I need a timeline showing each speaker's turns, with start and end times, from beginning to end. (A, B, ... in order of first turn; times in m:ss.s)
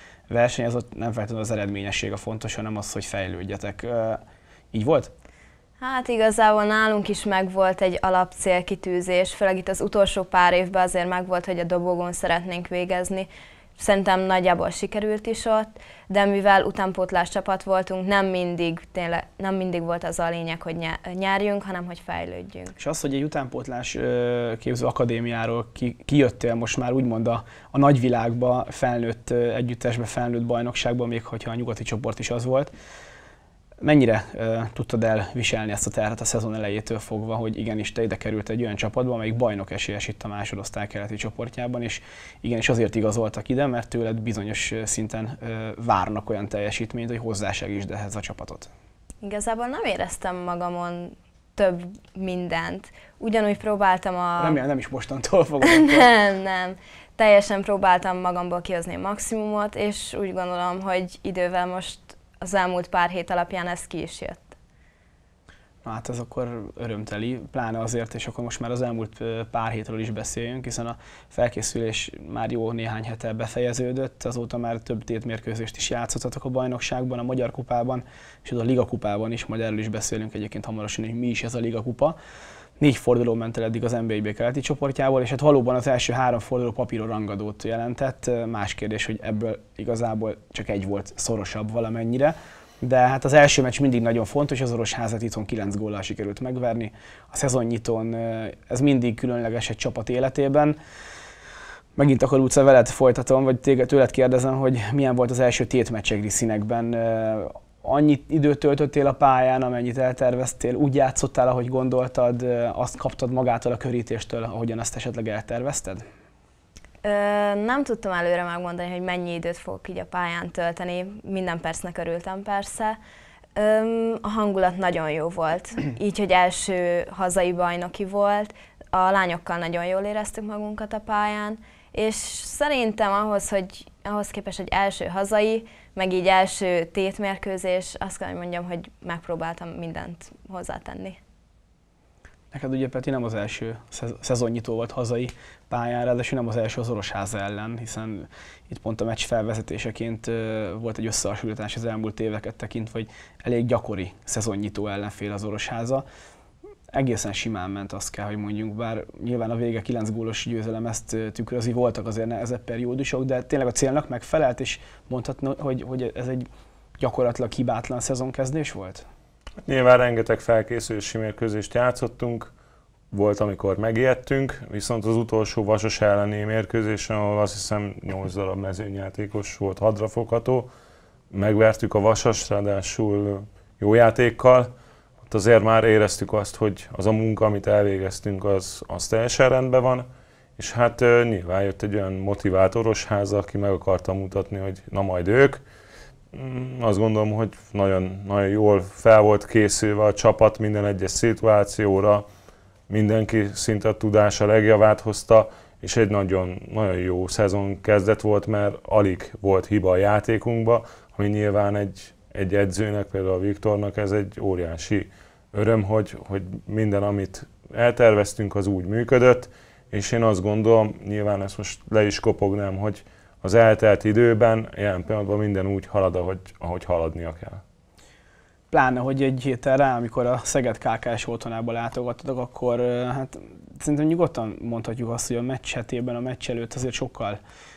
0:00.3-0:04.2 A
0:04.7-0:05.1 A
0:05.8-0:22.7 B
0:22.8-0:32.7 A
0:33.8-0:48.7 A
0:49.2-0:54.6 B
0:54.4-0:56.1 A
0:55.6-1:04.6 B
1:05.8-1:22.2 A
1:22.8-1:40.8 A
1:42.0-1:56.0 A
1:57.0-2:03.0 B
2:03.6-2:21.2 B
2:22.5-2:36.0 A
2:36.9-2:46.5 A
2:47.0-2:49.1 A
2:49.6-2:52.5 C
2:53.1-3:00.7 C
3:01.3-3:04.7 C
3:05.3-3:15.6 C
3:16.3-3:22.3 C
3:22.9-3:47.6 C
3:48.7-3:57.4 A